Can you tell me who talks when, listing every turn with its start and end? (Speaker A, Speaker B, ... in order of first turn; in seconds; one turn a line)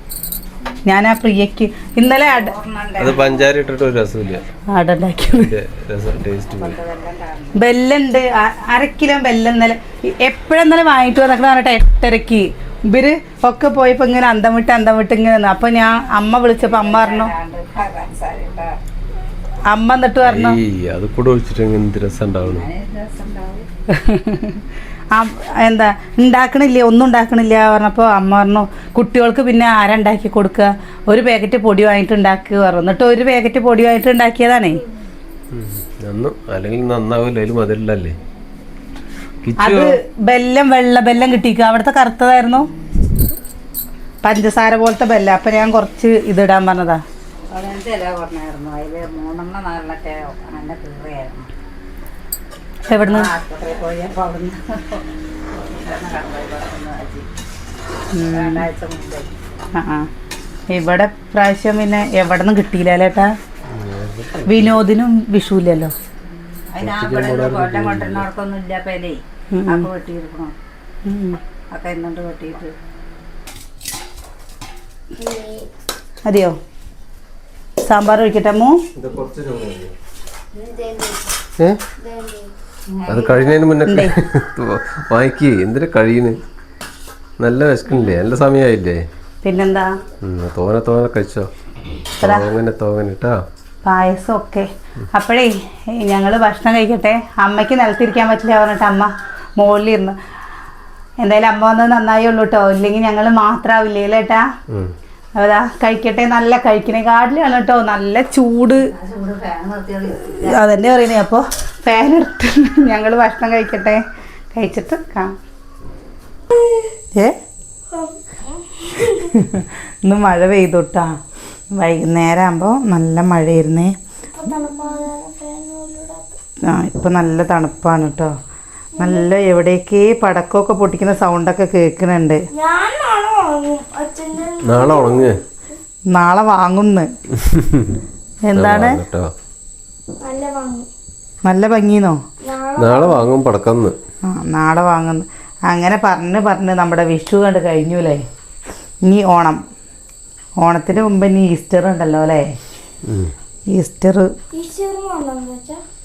Speaker A: 0.9-2.5
Speaker B: 2.0-3.5
Speaker C: 3.0-4.4
Speaker A: 4.7-5.5
Speaker C: 5.2-6.8
Speaker B: 6.5-7.6
Speaker A: 7.5-17.3
Speaker B: 16.6-18.8
Speaker A: 19.7-20.6
Speaker C: 20.2-22.7
Speaker B: 22.4-23.7
Speaker A: 23.9-34.8
Speaker C: 35.5-38.2
Speaker C: 39.4-39.9
Speaker A: 39.6-42.7
Speaker A: 44.2-47.0
Speaker B: 47.5-51.5
Speaker A: 52.9-53.3
Speaker B: 53.1-57.3
Speaker A: 58.1-58.7
Speaker B: 58.3-59.4
Speaker A: 59.8-60.1
Speaker A: 60.7-63.3
Speaker C: 63.6-64.8
Speaker A: 64.5-65.9
Speaker B: 66.3-70.5
Speaker C: 66.8-68.3
Speaker A: 69.5-69.9
Speaker A: 71.0-71.4
Speaker B: 71.7-72.7
Speaker D: 75.2-75.7
Speaker A: 76.3-76.6
Speaker A: 77.8-78.8
Speaker C: 79.0-79.9
Speaker D: 80.5-81.2
Speaker D: 82.0-82.5
Speaker B: 83.0-83.6
Speaker C: 83.1-86.4
Speaker A: 83.9-84.1
Speaker C: 87.4-89.0
Speaker A: 89.4-89.9
Speaker C: 90.2-91.5
Speaker C: 92.1-93.4
Speaker A: 92.2-92.5
Speaker A: 93.8-100.2
Speaker A: 101.2-104.5
Speaker C: 104.7-105.0
Speaker A: 105.4-108.9
Speaker B: 108.8-110.6
Speaker A: 110.5-114.0
Speaker A: 114.5-115.3
Speaker D: 117.9-119.4
Speaker A: 119.1-121.2
Speaker A: 121.7-124.0
Speaker D: 124.3-126.4
Speaker A: 126.7-128.3
Speaker D: 129.0-129.3
Speaker A: 129.0-132.4
Speaker D: 132.5-135.8
Speaker C: 134.6-135.4
Speaker A: 136.1-137.1
Speaker C: 137.3-138.0
Speaker A: 138.5-139.0
Speaker C: 138.5-139.3
Speaker D: 140.2-140.9
Speaker A: 141.5-142.2
Speaker D: 142.4-143.3
Speaker C: 142.8-144.0
Speaker A: 144.3-148.2
Speaker A: 149.1-149.6
Speaker A: 150.6-152.6
Speaker C: 153.1-153.3
Speaker A: 153.7-154.3
Speaker D: 154.5-155.8